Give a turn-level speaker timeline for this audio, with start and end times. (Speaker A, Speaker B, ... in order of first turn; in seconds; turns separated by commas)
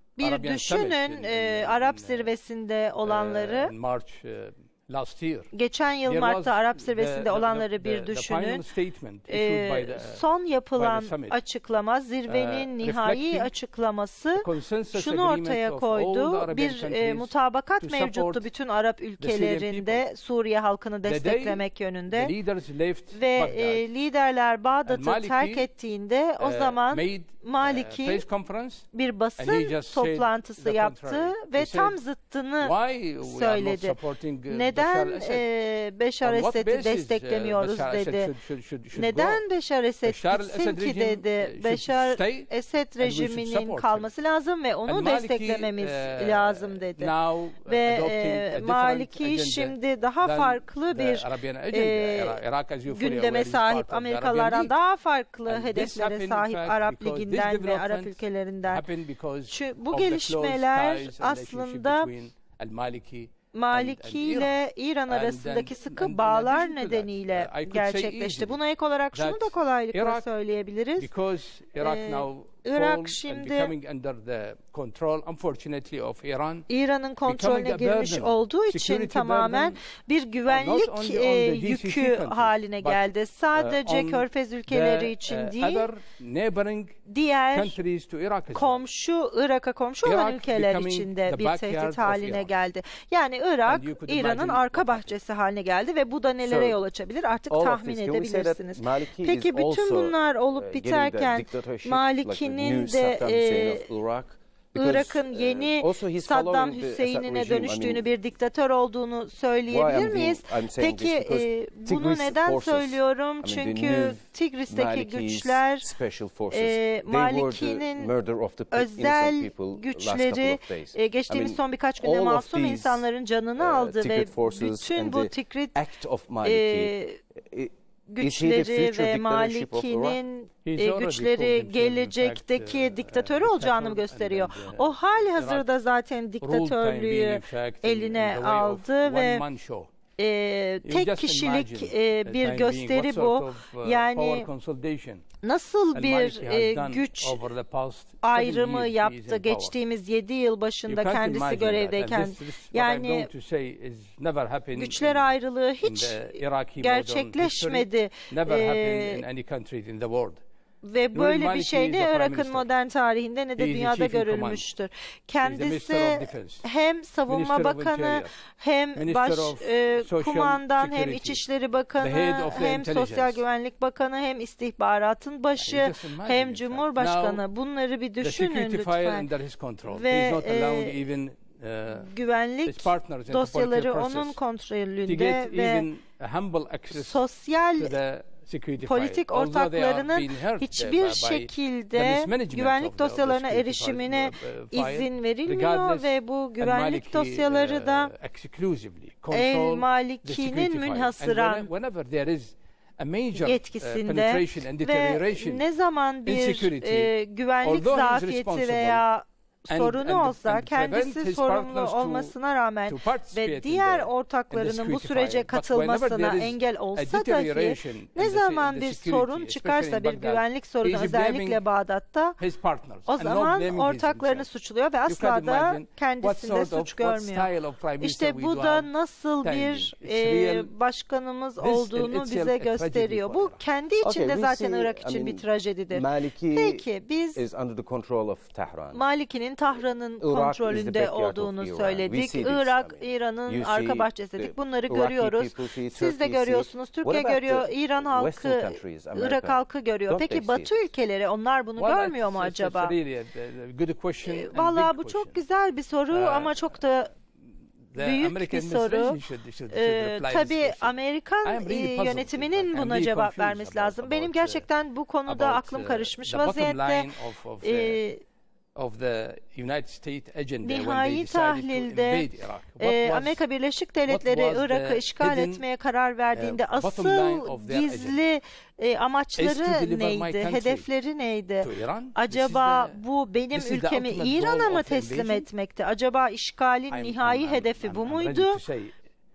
Speaker A: 0.2-3.7, Speaker B: 0.2-2.3, Speaker B: 3.0-5.5, Speaker A: 5.5-8.6, Speaker B: 6.0-11.4, Speaker A: 9.3-22.3, Speaker B: 12.3-13.5, Speaker B: 14.3-18.5, Speaker B: 19.2-20.0, Speaker B: 21.0-23.9, Speaker A: 23.1-28.2, Speaker B: 24.8-25.7, Speaker B: 26.4-28.9, Speaker A: 28.9-34.0, Speaker B: 29.4-32.0, Speaker B: 32.6-35.5, Speaker A: 34.5-38.3, Speaker B: 36.2-39.4, Speaker A: 38.9-47.1, Speaker B: 40.0-44.1, Speaker B: 44.9-54.7, Speaker A: 47.6-58.8, Speaker B: 55.5-68.6, Speaker A: 59.5-62.1, Speaker A: 63.5-71.1, Speaker B: 69.1-70.3, Speaker B: 71.0-76.7, Speaker A: 71.8-73.7, Speaker A: 76.7-85.9, Speaker B: 77.2-79.8, Speaker B: 80.5-87.0, Speaker A: 87.0-87.8, Speaker B: 87.5-88.8, Speaker A: 88.5-103.9, Speaker B: 90.0-92.5, Speaker B: 93.7-95.1, Speaker C: 96.4-96.8, Speaker C: 97.5-108.0, Speaker A: 104.7-115.9, Speaker C: 109.7-126.9, Speaker A: 116.5-118.1, Speaker A: 118.7-125.8, Speaker A: 126.4-127.2, Speaker C: 127.5-130.2, Speaker A: 128.1-139.4, Speaker B: 130.6-135.8, Speaker B: 136.4-139.9, Speaker A: 140.2-144.5, Speaker B: 140.8-145.2, Speaker A: 145.4-147.4, Speaker B: 145.9-149.8, Speaker A: 148.2-153.3, Speaker B: 150.9-155.3, Speaker A: 154.7-159.2, Speaker B: 155.8-160.4, Speaker A: 160.8-179.3, Speaker B: 161.1-162.7, Speaker B: 163.6-164.7, Speaker B: 165.4-166.6, Speaker B: 167.3-168.3, Speaker B: 168.9-171.4, Speaker B: 172.0-173.4, Speaker B: 175.6-177.4, Speaker B: 178.2-182.1, Speaker A: 179.8-181.0, Speaker A: 181.9-185.9, Speaker B: 182.7-184.4, Speaker B: 185.1-187.2, Speaker A: 186.9-187.9, Speaker B: 187.8-205.7, Speaker A: 188.8-198.1, Speaker A: 199.3-201.7, Speaker A: 203.3-222.4, Speaker B: 206.2-209.0, Speaker B: 209.7-212.3, Speaker B: 212.8-221.6, Speaker B: 222.4-224.5, Speaker A: 223.1-237.4, Speaker B: 225.1-228.9, Speaker B: 229.4-230.7, Speaker B: 231.6-233.6, Speaker C: 234.0-239.0, Speaker A: 238.9-252.9, Speaker C: 240.2-250.7, Speaker B: 251.8-255.3, Speaker A: 254.2-257.1, Speaker B: 256.1-256.7, Speaker B: 257.9-260.9, Speaker A: 257.9-259.2, Speaker A: 259.7-267.1, Speaker B: 261.4-264.7, Speaker B: 265.2-268.0, Speaker A: 267.6-268.2, Speaker B: 268.7-273.4, Speaker A: 270.6-272.3, Speaker A: 272.8-288.6, Speaker B: 274.1-275.6, Speaker B: 276.3-278.2, Speaker B: 279.4-280.9, Speaker B: 281.6-283.0, Speaker B: 283.5-285.5, Speaker B: 286.9-288.9